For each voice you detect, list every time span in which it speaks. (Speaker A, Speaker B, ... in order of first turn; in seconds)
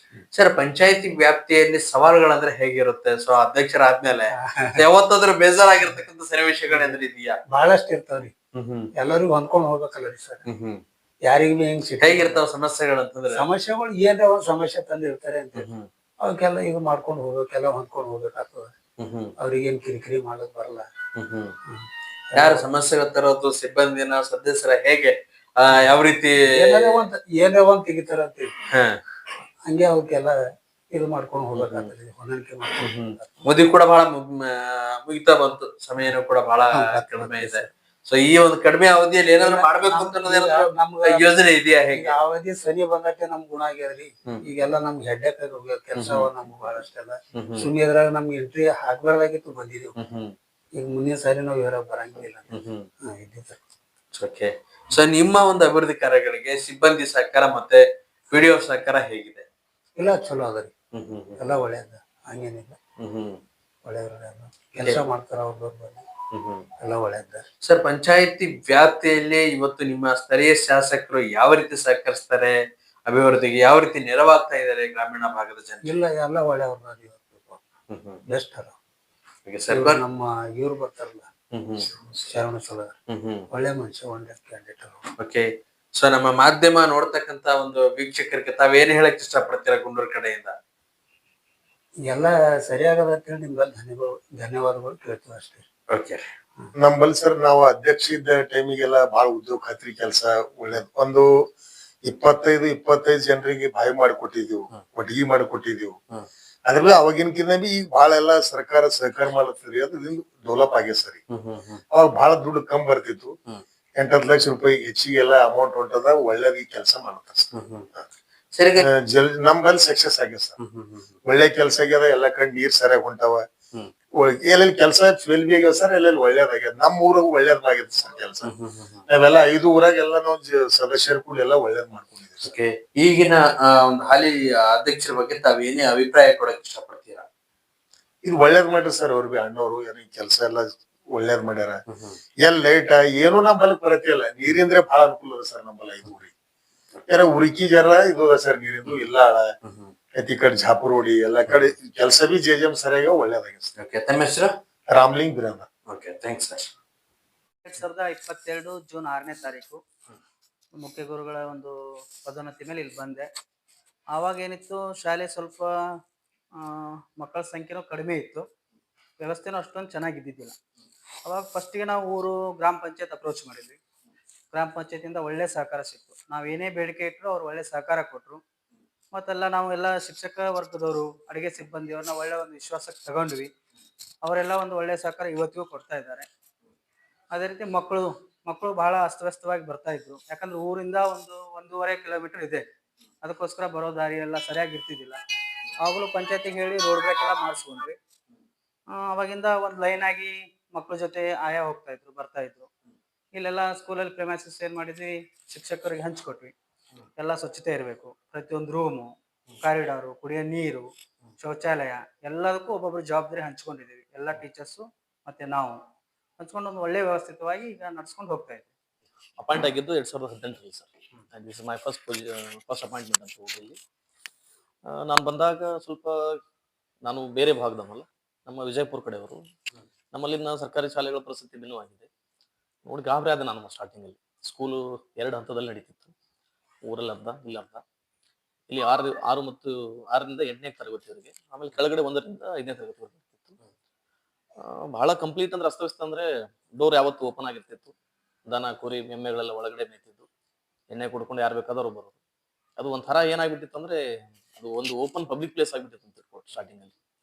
Speaker A: 0.3-7.3, 10.5-10.8, 12.0-13.4, 21.2-21.4, 22.4-26.8, 33.4-42.0, 50.0-50.3, 54.1-59.4, 61.0-61.2, 63.1-63.3, 67.6-72.5, 73.1-75.8, 79.5-80.0, 81.5-81.8, 83.2-83.4, 85.2-90.5, 95.9-96.2, 133.0-137.2, 153.8-154.5, 155.9-156.7
Speaker B: 4.3-4.8, 7.5-8.3, 8.9-10.4, 11.2-12.4, 13.3-15.7, 16.2-18.7, 19.4-20.9, 21.7-22.6, 26.5-28.5, 29.7-30.4, 30.9-33.3, 36.7-37.6, 39.4-49.9, 50.7-52.5, 53.0-53.6, 60.0-60.7, 61.4-62.8, 63.8-66.0, 66.8-67.5, 75.8-77.6, 78.3-78.7, 79.7-81.3, 82.0-82.9, 83.5-85.0, 92.0-95.6, 184.7-184.9, 213.1-213.5
Speaker C: 37.2-37.4, 46.0-46.2, 111.3-111.8, 117.5-117.9, 120.6-121.1, 219.4-223.8, 224.9-226.3, 227.0-229.4, 230.1-232.1, 232.9-236.1, 236.8-237.8, 238.7-243.6, 244.6-247.9, 248.4-250.2, 250.9-252.2, 252.8-254.0, 254.5-256.9
Speaker D: 96.8-101.3, 102.0-106.0, 106.7-111.2, 111.9-113.3, 114.0-118.0, 118.8-120.5, 121.2-123.4, 124.2-128.5, 129.1-132.5, 138.2-141.8, 142.4-146.3, 147.1-149.5, 150.1-153.7, 154.9-155.7
Speaker E: 158.0-159.7, 160.8-161.7, 162.2-163.2, 164.1-165.6, 167.2-168.4, 169.2-170.5, 171.2-173.8, 174.5-178.4, 179.1-183.5, 184.3-186.2, 187.3-192.6, 193.2-195.2, 195.8-197.9, 199.0-202.7, 203.3-206.5, 207.2-209.1, 209.7-210.9, 211.4-215.8, 216.4-218.7